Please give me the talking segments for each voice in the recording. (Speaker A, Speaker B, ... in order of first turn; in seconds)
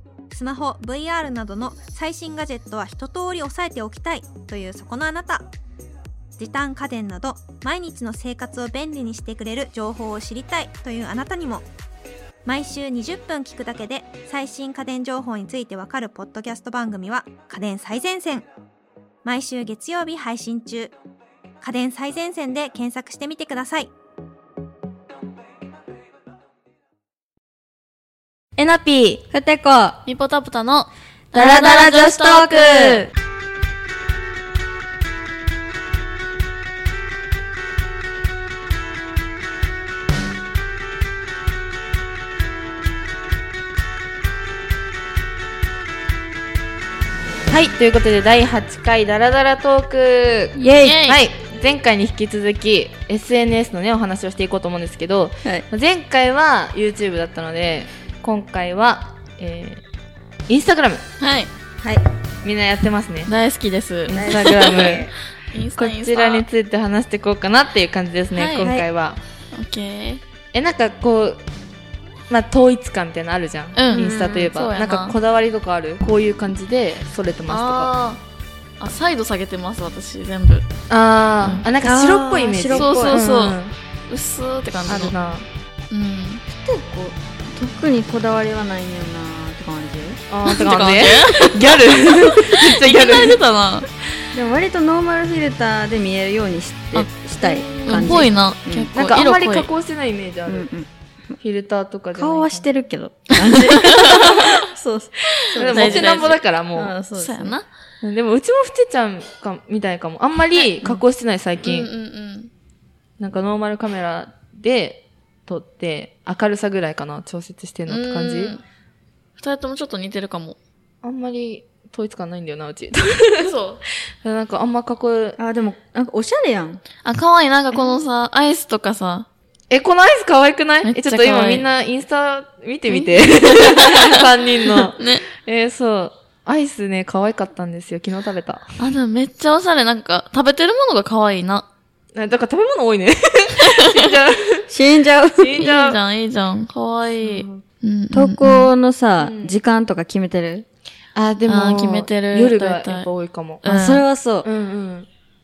Speaker A: 0.3-5.5, 6.4-11.7, 12.4-18.5, 19.2-20.9, 21.6-23.9
Speaker B: 28.6-29.2, 31.4-33.1, 47.5-59.8, 60.5-61.0, 62.4-63.3, 64.0-65.1, 65.8-69.2, 70.5-71.4, 72.3-77.9, 80.9-83.7, 84.9-85.4, 90.3-93.4, 97.5-98.1, 98.9-100.7, 101.4-102.7, 105.4-106.9, 108.0-111.9, 113.2-118.5, 121.0-123.5, 124.2-125.4, 129.7-138.6, 142.1-144.7, 145.3-146.0, 147.2-147.6, 149.2-149.6, 151.1-153.7, 154.4-155.1
Speaker C: 29.3-30.0, 31.3-33.0, 50.5-51.0, 64.1-65.1, 68.6-68.8, 73.9-74.5, 81.8-83.2, 86.5-90.2, 94.3-99.0, 100.5-100.9, 102.1-107.5, 125.4-126.8, 144.7-145.6, 148.1-150.7, 153.6-154.4
Speaker D: 30.0-32.4, 50.8-51.2, 61.2-61.5, 63.2-64.9, 65.5-66.4, 68.3-68.7, 69.5-70.2, 73.7-75.2, 77.5-78.2, 78.8-80.7, 81.4-81.7, 82.7-83.6, 84.1-85.2, 85.9-86.4, 90.4-93.9, 97.8-99.7, 103.4-104.3, 105.7-106.4, 107.1-107.7, 110.5-111.0, 111.6-112.5, 117.9-118.6, 119.4-120.6, 123.4-123.8, 127.0-129.3, 130.8-131.6, 132.9-134.3, 134.9-135.3, 138.8-141.7, 143.7-144.1, 145.6-148.7, 151.4-153.1, 153.6-154.0